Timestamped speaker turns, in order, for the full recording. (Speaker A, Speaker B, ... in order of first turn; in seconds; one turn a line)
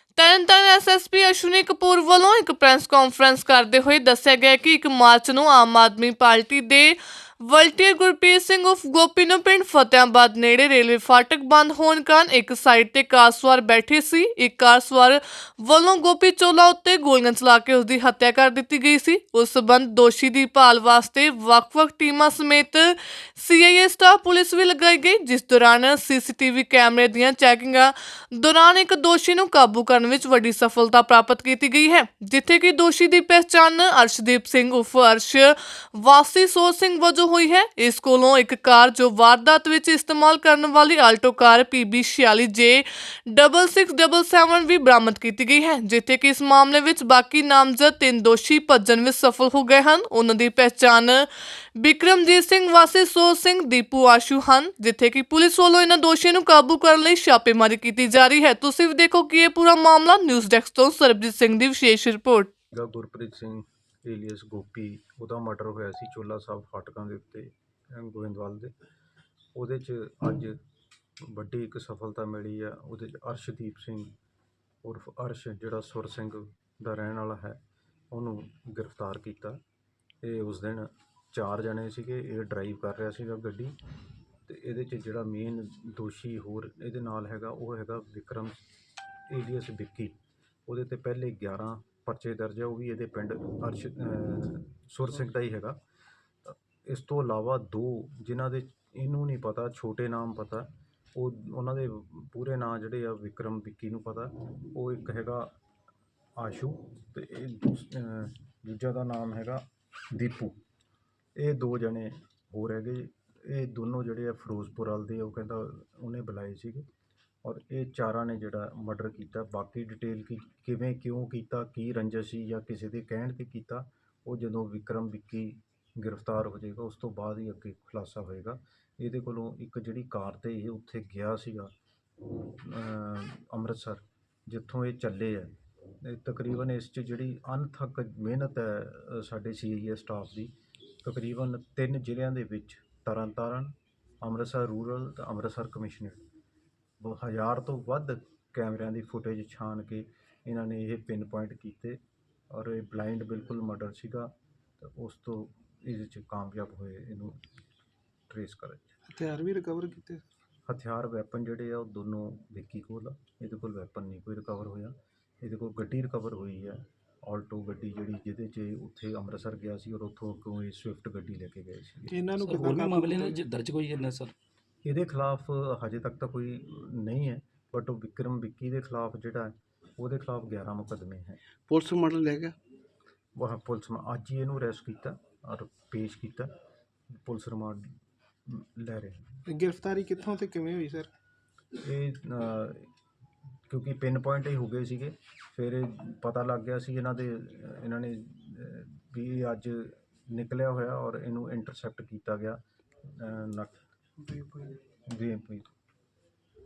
Speaker A: 0.1-62.5
Speaker B: 62.7-68.7
Speaker B: 69.5-70.6
Speaker B: 71.2-74.1
Speaker B: 74.8-79.6
Speaker B: 80.2-83.8
Speaker B: 84.5-88.6
Speaker B: 89.3-95.8
Speaker B: 96.4-105.5
Speaker B: 106.4-110.6
Speaker B: 111.3-116.9
Speaker B: 117.4-131.7
Speaker B: 132.5-146.2
Speaker B: 147.0-157.4
Speaker B: 158.3-158.9
Speaker C: 159.1-160.2
Speaker B: 160.7-172.1
Speaker C: 172.1-173.4
Speaker D: 172.4-174.3
Speaker B: 174.8-181.4
Speaker C: 181.7-182.6
Speaker B: 183.3-186.5
Speaker B: 187.2-189.4
Speaker C: 189.5-191.1
Speaker B: 191.8-192.9
Speaker B: 193.7-203.7
Speaker C: 204.2-204.8
Speaker B: 205.1-205.7